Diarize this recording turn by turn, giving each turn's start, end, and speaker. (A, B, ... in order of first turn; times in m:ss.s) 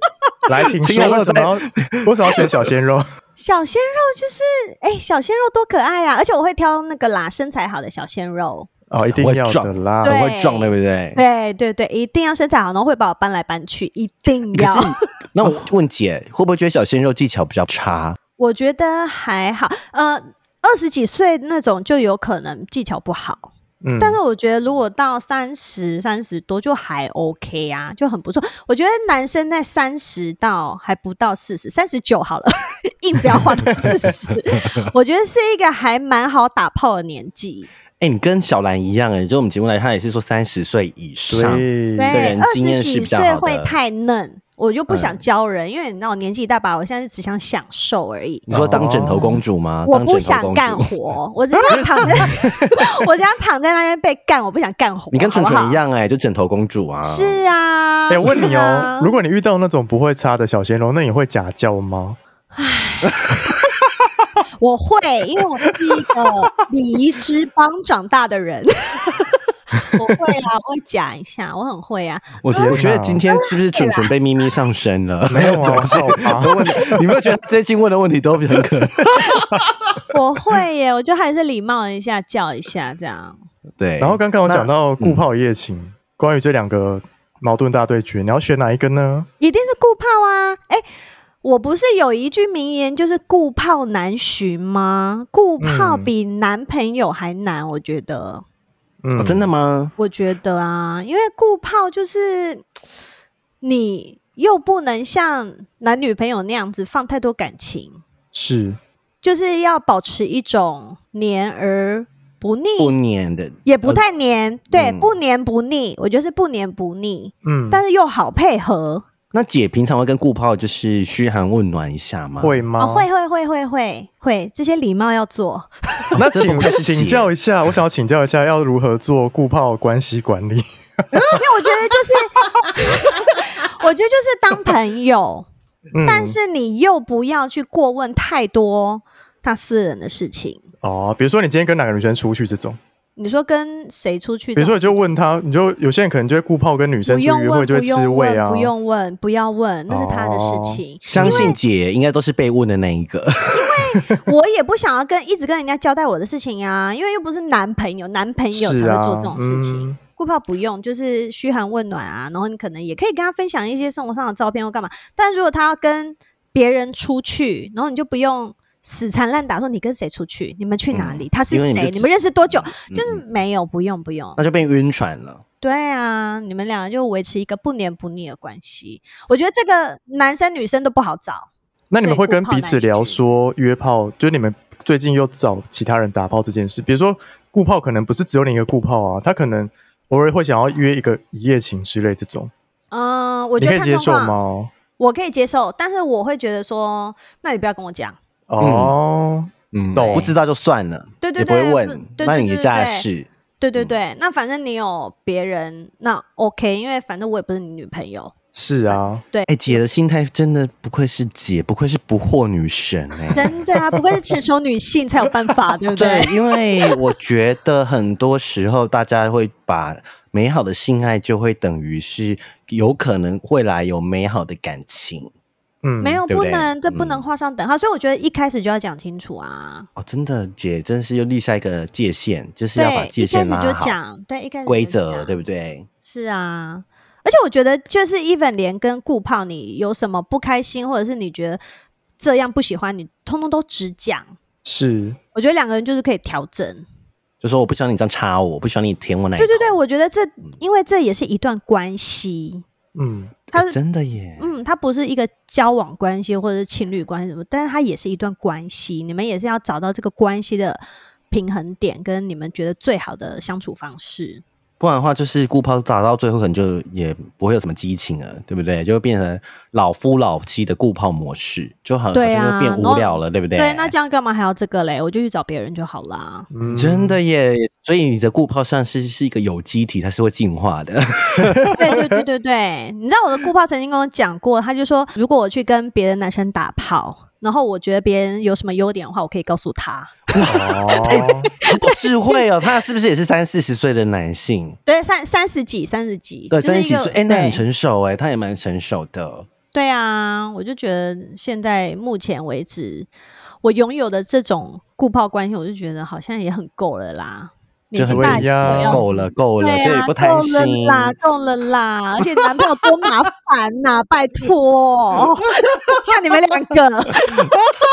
0:00.4-0:03.0 A
0:00.8-0:02.6 B
0:03.4-0:08.7 C
0:08.9-0:10.1 A
0:09.1-0:11.2 B
0:10.0-0:15.0 C
0:14.5-0:18.2 B
0:18.4-0:37.7 C
0:23.8-0:24.2 A
0:38.0-0:43.8 B
0:41.3-0:42.4 A
0:42.0-0:48.5 C
0:44.9-0:45.2 B
0:48.5-0:49.4 A
0:48.5-0:50.9 B
0:49.8-0:55.8 C
0:51.7-0:52.5 A
0:51.7-0:52.1 B
0:55.1-0:57.4 B
0:57.0-0:59.2 C
0:58.1-1:02.2 A
0:58.2-0:58.9 B
1:02.5-1:03.2 C
1:04.6-1:09.4 C
1:09.9-1:14.1 C
1:12.4-1:19.6 B
1:12.7-1:13.2 A
1:15.3-1:17.1 A
1:20.1-1:23.4 C
1:23.8-1:25.2 B
1:24.0-1:29.3 A
1:29.4-1:30.8 C
1:31.4-1:38.4 C
1:35.6-1:36.1 A
1:39.0-1:39.5 A
1:39.2-1:39.9 B
1:40.0-1:42.7 C
1:43.6-1:48.0 C
1:48.3-1:48.8 A
1:49.2-1:53.0 C
1:52.8-1:54.0 B
1:53.6-1:59.0 C
1:54.7-1:55.2 B
1:57.4-1:57.8 A
1:59.3-2:02.6 B
2:02.4-2:03.1 A
2:02.8-2:06.1 C
2:06.2-2:11.2 A
2:06.2-2:07.3 B
2:11.3-2:15.4 C
2:15.9-2:16.4 A
2:16.0-2:20.6 C
2:20.8-2:22.8 A
2:23.2-2:25.0 C
2:24.6-2:28.7 A
2:27.0-2:31.6 C
2:29.9-2:31.5 A
2:31.1-2:33.8 B
2:33.5-2:54.4 C
2:38.5-2:40.0 A
2:50.9-2:53.2 B
2:54.4-2:55.4 B
2:55.6-3:01.5 C
3:01.9-3:12.5 A
3:02.0-3:03.2 C
3:12.9-3:14.4 C
3:13.6-3:14.7 A
3:15.0-3:18.2 C
3:18.5-3:20.3 A
3:18.6-3:19.0 B
3:19.7-3:23.9 B
3:20.0-3:20.3 C
3:21.2-3:23.1 C
3:23.6-3:28.3 C
3:28.5-3:29.2 A
3:29.3-3:29.8 C
3:29.5-3:34.2 B
3:33.3-3:36.3 C
3:35.9-3:45.3 B
3:45.8-3:46.2 A
3:46.0-3:49.9 C
3:46.3-3:47.2 B
3:50.0-3:54.0 B
3:52.7-3:55.3 C
3:54.6-3:55.8 B
3:56.0-4:01.6 C
4:02.2-4:04.3 C
4:04.6-4:05.2 A
4:05.3-4:06.8 C
4:07.4-4:09.8 B
4:09.4-4:12.6 C
4:12.9-4:13.4 A
4:13.5-4:13.8 C
4:13.5-4:14.5 B
4:14.4-4:24.4 C
4:24.8-4:33.9 B
4:32.1-4:36.5 C
4:36.5-4:37.2 A
4:36.7-4:41.8 B
4:41.8-4:52.3 C
4:50.4-4:51.5 A
4:51.0-4:54.8 B
4:54.8-4:57.6 C
4:56.5-4:59.5 B
4:59.7-5:03.1 C
5:03.6-5:09.0 C
5:07.9-5:11.2 B
5:08.0-5:09.1 A
5:09.6-5:17.5 C